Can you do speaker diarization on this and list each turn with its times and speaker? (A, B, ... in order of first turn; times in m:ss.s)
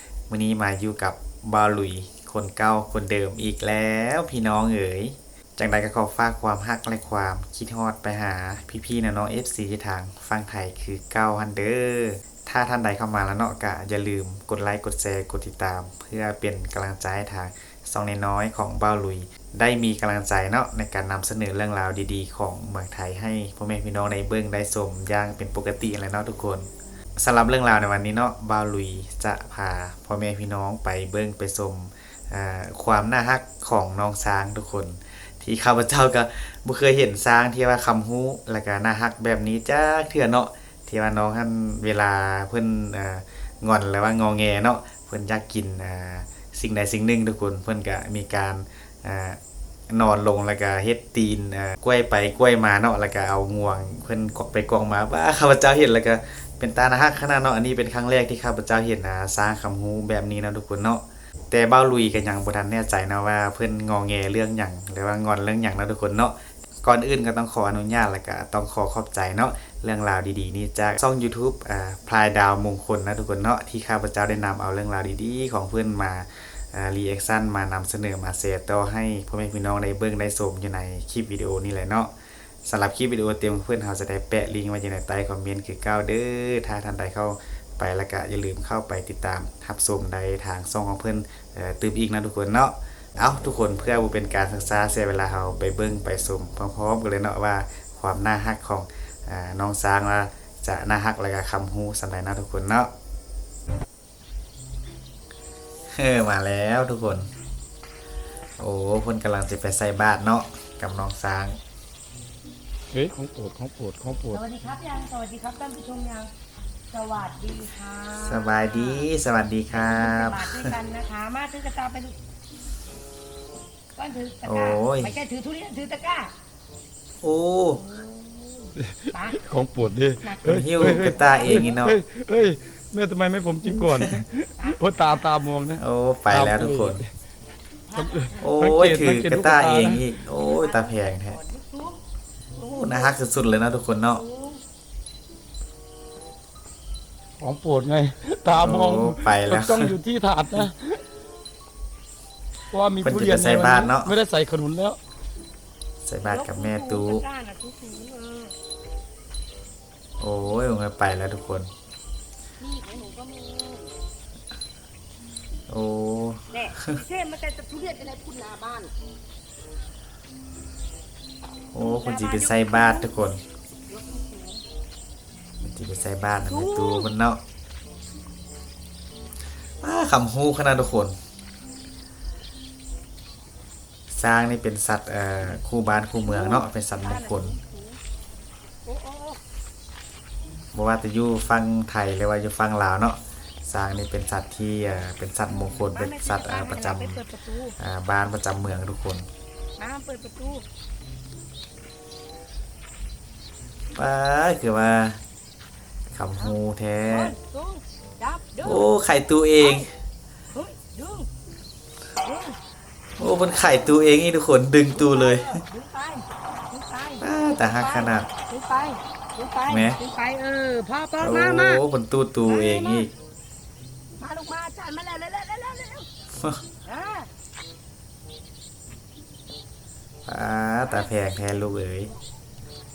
0:00.3-1:22.1 A
1:22.6-1:42.9 A
1:45.9-1:47.3 A
1:48.6-1:51.6 A
1:52.9-1:54.4 B
1:54.3-1:56.3 C
1:56.9-1:59.2 C
1:58.2-2:00.7 A
1:59.7-2:02.2 C
2:04.0-2:06.3 C
2:04.4-2:05.2 A
2:07.2-2:07.8 A
2:07.8-2:09.4 C
2:08.8-2:17.1 B
2:10.2-2:11.8 C
2:10.4-2:12.0 A
2:13.7-2:14.1 A
2:14.6-2:15.3 C
2:15.8-2:17.0 A
2:17.9-2:18.7 C
2:18.0-2:20.0 B
2:18.4-2:21.4 A
2:20.4-2:22.0 C
2:22.6-2:24.2 A
2:22.6-2:23.1 C
2:24.1-2:24.6 C
2:27.4-2:31.0 B
2:28.5-2:30.0 A
2:32.7-2:35.0 B
2:33.0-2:34.1 A
2:36.0-2:37.2 A
2:36.2-2:38.6 C
2:40.2-2:41.7 A
2:42.6-2:43.9 C
2:45.7-2:47.0 A
2:46.5-2:48.9 C
2:51.7-2:53.4 A
2:51.8-2:53.1 C
2:53.9-2:54.6 C
2:55.6-2:57.4 A
2:56.5-2:57.1 C
2:59.8-3:01.2 A
3:04.1-3:07.6 A
3:06.2-3:08.0 C
3:08.8-3:09.4 C
3:10.7-3:17.2 A
3:15.9-3:17.8 C
3:17.8-3:19.3 A
3:19.8-3:20.6 C
3:24.0-3:25.2 A
3:26.1-3:27.3 A
3:26.4-3:28.9 C
3:28.6-3:29.9 A
3:29.6-3:29.9 C
3:30.5-3:31.3 C
3:32.2-3:32.6 C
3:33.2-3:35.6 A
3:34.9-3:41.8 C
3:37.2-3:38.3 A
3:39.7-3:40.0 A
3:41.2-3:43.1 A
3:42.4-3:43.1 C
3:44.2-3:46.1 C
3:46.8-3:47.3 C
3:50.3-3:52.1 A
3:50.8-3:51.1 C